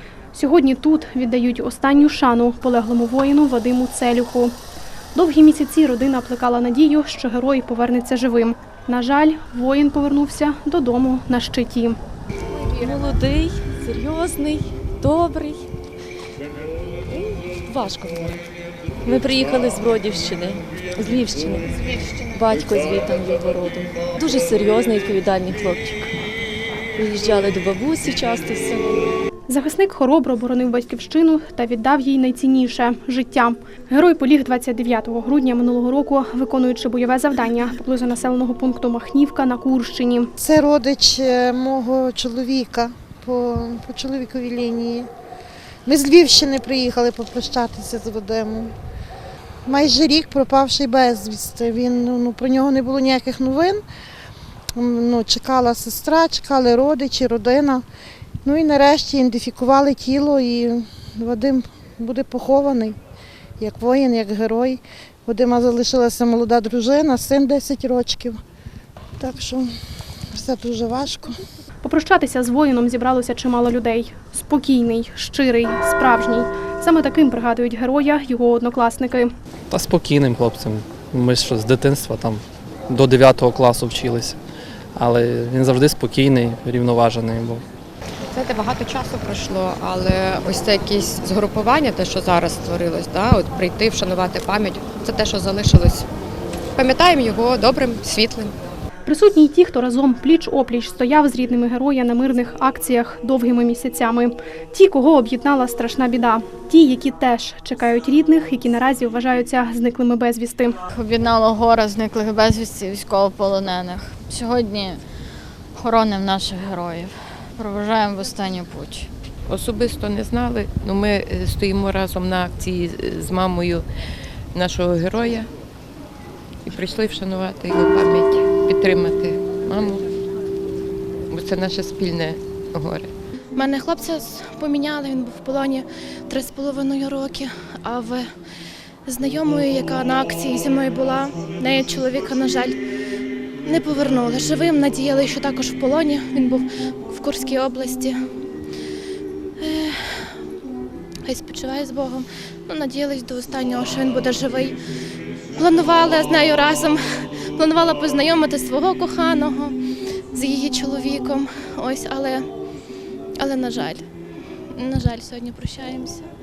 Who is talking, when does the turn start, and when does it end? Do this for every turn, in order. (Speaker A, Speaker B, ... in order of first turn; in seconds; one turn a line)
Speaker A: 0.3-4.5
Speaker A: 5.1-12.0
Speaker B: 12.5-15.7
Speaker B: 17.1-18.4
Speaker B: 19.0-26.1
Speaker B: 26.9-29.1
Speaker A: 29.5-40.3
Speaker C: 40.4-45.1
Speaker C: 45.9-48.7
Speaker C: 49.6-53.8
Speaker C: 54.7-57.8
Speaker C: 58.4-63.0
Speaker C: 63.6-68.4
Speaker C: 69.2-69.7
Speaker C: 70.3-71.3
Speaker A: 71.8-79.3
Speaker D: 79.7-84.4
Speaker D: 85.0-87.6
Speaker E: 88.3-96.1
Speaker E: 96.8-98.5
Speaker A: 99.0-110.8
Speaker F: 110.9-115.0
Speaker F: 115.8-119.1
Speaker G: 119.5-123.8
Speaker G: 124.5-125.5
Speaker G: 126.6-130.0
Speaker G: 131.3-133.1
Speaker H: 133.5-138.2
Speaker H: 139.1-142.7
Speaker H: 143.7-148.2
Speaker H: 149.6-150.3
Speaker H: 151.2-154.8
Speaker H: 155.5-157.0
Speaker H: 157.6-159.8
Speaker H: 160.3-162.4
Speaker H: 163.4-164.1
Speaker H: 164.7-166.3